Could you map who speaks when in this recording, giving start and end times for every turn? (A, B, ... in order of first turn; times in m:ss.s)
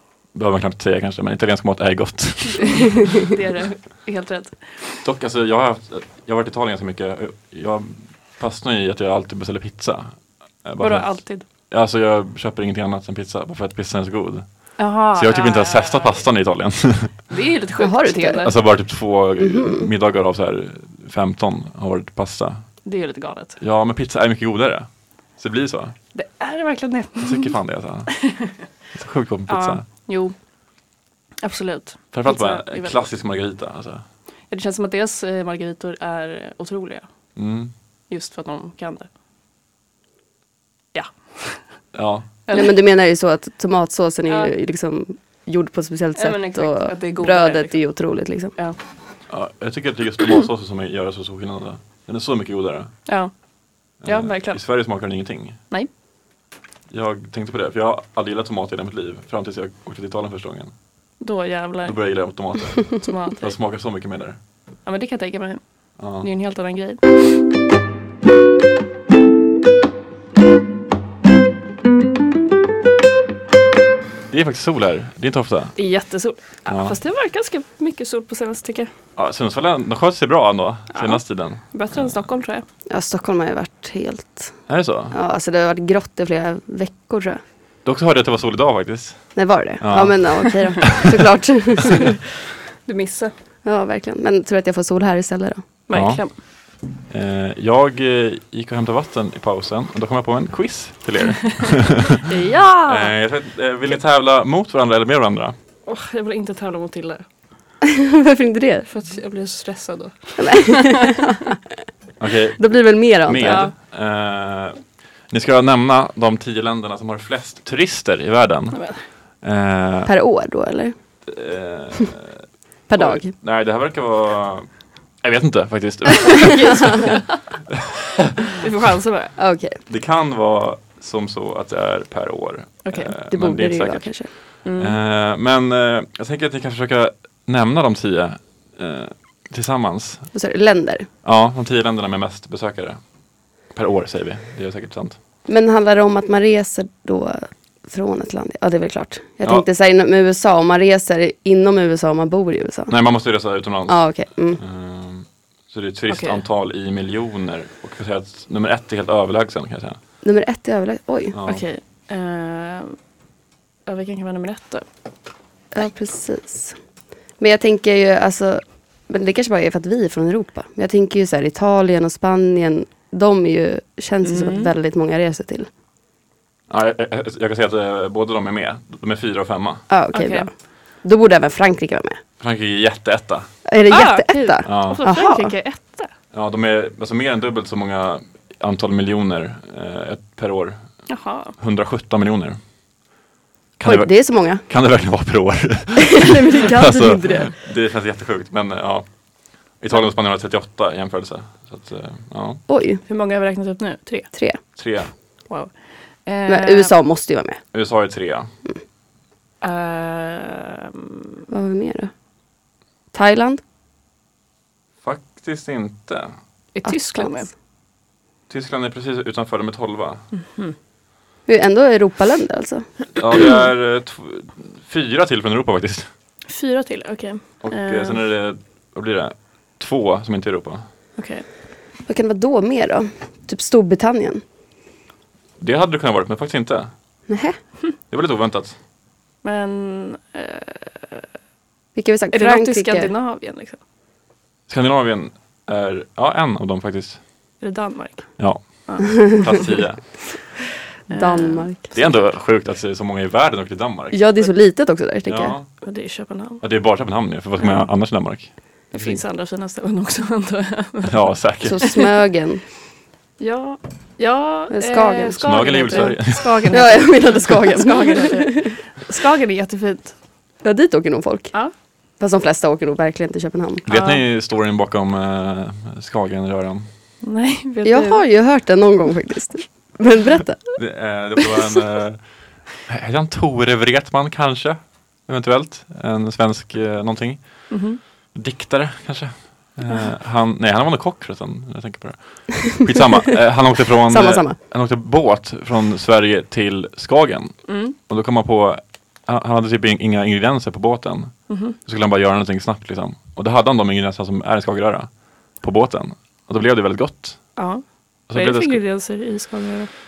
0:00.3-0:03.0 A
0:02.6-0:05.0 B
0:05.0-0:17.2 A
0:10.8-0:11.4 B
0:14.8-0:16.2 B
0:17.3-0:18.5 B
0:17.8-0:18.5 C
0:18.4-0:22.7 A
0:19.4-0:19.9 C
0:22.8-0:23.6 B
0:23.6-0:26.0 A
0:26.1-0:27.5 B
0:27.2-0:28.3 A
0:28.1-0:28.6 B
0:28.9-0:29.9 A
0:29.5-0:30.4 B
0:31.4-0:33.1 B
0:32.1-0:34.0 A
0:34.5-0:37.1 B
0:37.4-0:37.7 A
0:38.1-0:39.1 B
0:40.9-0:41.8 B
0:41.9-0:42.3 A
0:42.5-0:42.8 B
0:42.5-0:48.6 C
0:44.3-0:44.5 B
0:46.2-0:47.8 B
0:49.3-0:52.9 A
0:53.1-0:53.4 B
0:54.0-0:54.6 B
0:54.0-0:55.6 A
0:56.9-1:00.7 A
1:01.2-1:02.0 B
1:01.8-1:04.4 A
1:03.0-1:03.5 B
1:04.8-1:05.6 B
1:06.0-1:06.3 A
1:06.2-1:07.1 B
1:14.3-1:15.8 A
1:15.8-1:18.9 B
1:16.7-1:17.0 A
1:19.2-1:22.2 A
1:20.9-1:22.6 B
1:22.9-1:27.4 C
1:24.7-1:25.2 A
1:27.8-1:31.1 A
1:29.4-1:32.2 C
1:32.8-1:33.3 B
1:33.6-1:35.6 C
1:35.9-1:36.4 B
1:35.9-1:36.4 A
1:37.1-1:42.2 A
1:42.2-1:43.1 B
1:42.9-1:45.6 A
1:45.9-1:47.3 B
1:47.9-1:48.9 C
1:48.9-1:51.3 B
1:50.4-1:51.5 C
1:52.2-1:52.7 A
1:52.6-1:53.7 C
1:53.2-1:58.8 A
1:53.4-1:53.7 B
1:58.7-1:59.0 B
1:59.4-2:00.1 A
2:00.1-2:01.0 C
2:01.3-2:04.7 A
2:02.9-2:03.3 C
2:05.2-2:07.2 A
2:06.6-2:07.0 B
2:06.6-2:07.1 C
2:07.7-2:08.3 A
2:08.6-2:09.4 B
2:09.4-2:09.8 C
2:09.9-2:20.3 A
2:12.8-2:13.1 B
2:13.3-2:14.3 C
2:14.6-2:15.0 B
2:20.3-2:21.1 C
2:21.2-2:23.0 A
2:23.7-2:25.2 A
2:25.5-2:33.0 C
2:32.9-2:34.0 A
2:33.9-2:34.6 C
2:34.6-2:40.0 A
2:36.1-2:36.4 B
2:40.2-2:41.4 C
2:41.3-2:41.6 A
2:41.5-2:43.0 B
2:43.9-2:44.8 B
2:45.7-2:46.8 C
2:47.4-2:55.7 C
2:54.2-2:54.7 B
2:56.7-2:59.8 A
2:59.9-3:02.2 C
3:00.1-3:00.5 B
3:02.4-3:03.5 A
3:03.7-3:05.5 C
3:03.9-3:06.1 B
3:04.6-3:05.0 A
3:06.3-3:11.0 A
3:11.1-3:11.6 B
3:11.6-3:12.6 A
3:13.8-3:19.1 A
3:13.8-3:14.6 C
3:16.0-3:17.5 C
3:19.7-3:22.6 A
3:22.7-3:23.0 C
3:23.1-3:24.3 B
3:24.3-3:24.6 C
3:24.8-3:25.1 A
3:25.5-3:26.9 B
3:26.5-3:27.6 C
3:27.7-3:28.5 A
3:29.6-3:31.2 B
3:31.5-3:32.1 C
3:33.1-3:33.6 C
3:35.0-3:36.3 A
3:36.7-3:37.5 B
3:36.8-3:37.5 C
3:38.5-3:40.2 A
3:40.3-3:40.8 B
3:41.5-3:42.9 C
3:43.2-3:46.1 A
3:46.5-3:48.2 B
3:47.6-3:50.9 A
3:51.2-3:51.4 B
3:52.1-3:54.4 C
3:55.6-3:56.9 A
3:57.3-3:57.6 C
3:58.1-3:58.8 A
3:59.4-4:01.3 B
4:02.0-4:03.1 C
4:02.3-4:03.8 B
4:04.7-4:07.2 A
4:07.6-4:09.6 B
4:08.4-4:10.2 A
4:11.1-4:11.7 B
4:11.1-4:11.9 C
4:11.9-4:14.2 A
4:14.1-4:15.6 C
4:15.3-4:15.8 A
4:15.8-4:16.6 B
4:16.6-4:19.2 A
4:17.6-4:17.8 B
4:18.9-4:22.0 B
4:21.1-4:21.8 A
4:21.6-4:22.7 C
4:23.4-4:30.2 B
4:24.7-4:26.2 C
4:25.4-4:26.7 A
4:26.7-4:28.8 C
4:30.6-4:31.6 C
4:32.2-4:33.8 C
4:33.9-4:36.9 A
4:33.9-4:34.2 B
4:37.2-4:38.2 B
4:37.8-4:40.7 C
4:40.8-4:47.8 A
4:47.7-4:48.0 B
4:48.3-5:07.6 A
4:54.1-4:54.6 C
4:57.7-4:58.0 B
5:01.5-5:01.8 B
5:07.6-5:09.9 B
5:08.3-5:08.8 A